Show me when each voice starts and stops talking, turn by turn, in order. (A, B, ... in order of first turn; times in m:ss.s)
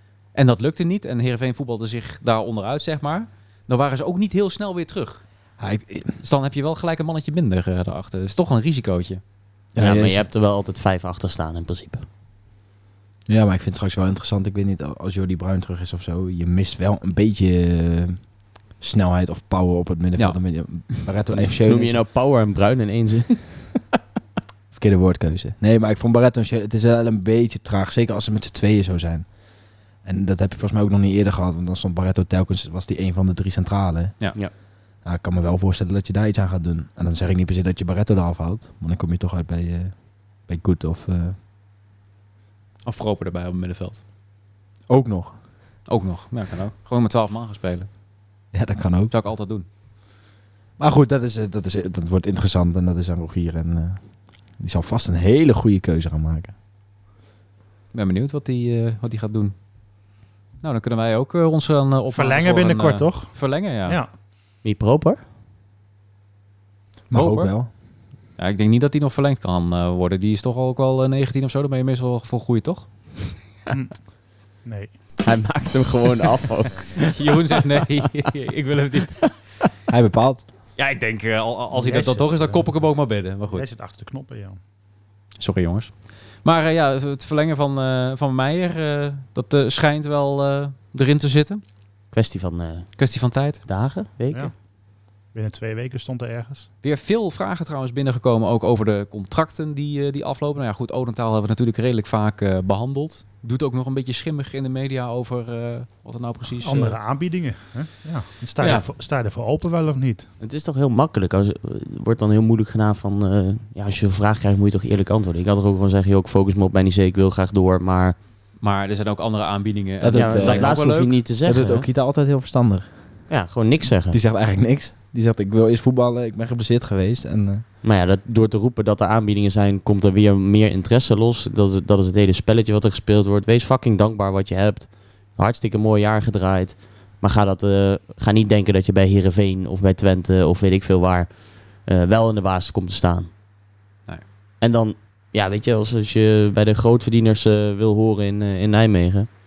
0:00.3-0:05.2 A
0:05.6-0:06.2 B
0:06.2-0:09.2 A
0:09.7-0:10.2 B
0:09.8-0:12.0 C
0:13.3-0:18.2 B
0:18.8-0:22.0 B
0:21.3-0:23.7 C
0:24.7-0:29.3 B
0:30.0-0:34.3 B
0:35.0-0:41.3 B
0:42.8-0:44.0 A
0:44.9-0:45.3 B
0:45.9-0:47.9 A
0:48.5-0:49.1 B
0:49.1-0:49.6 A
0:50.8-0:54.0 B
0:54.6-0:56.5 B
0:57.9-0:59.5 A
1:00.6-1:04.0 A
1:02.1-1:04.1 D
1:04.6-1:05.2 C
1:07.1-1:07.7 B
1:07.1-1:07.5 A
1:08.4-1:12.9 A
1:13.7-1:14.0 D
1:14.6-1:14.9 D
1:15.2-1:17.1 C
1:17.0-1:19.3 A
1:19.9-1:20.4 B
1:20.8-1:23.7 A
1:21.7-1:22.9 D
1:23.5-1:24.6 D
1:25.4-1:31.6 A
1:32.1-1:33.0 C
1:33.0-1:33.6 A
1:33.6-1:34.5 C
1:35.3-1:36.7 D
1:36.8-1:47.0 A
1:46.6-1:50.3 D
1:48.6-1:48.8 A
1:50.4-1:58.2 C
1:58.6-2:01.2 A
2:00.0-2:03.0 B
2:00.1-2:01.9 C
2:03.3-2:04.2 C
2:04.1-2:07.6 B
2:07.8-2:21.3 C
2:21.8-2:23.3 C
2:24.6-2:29.3 C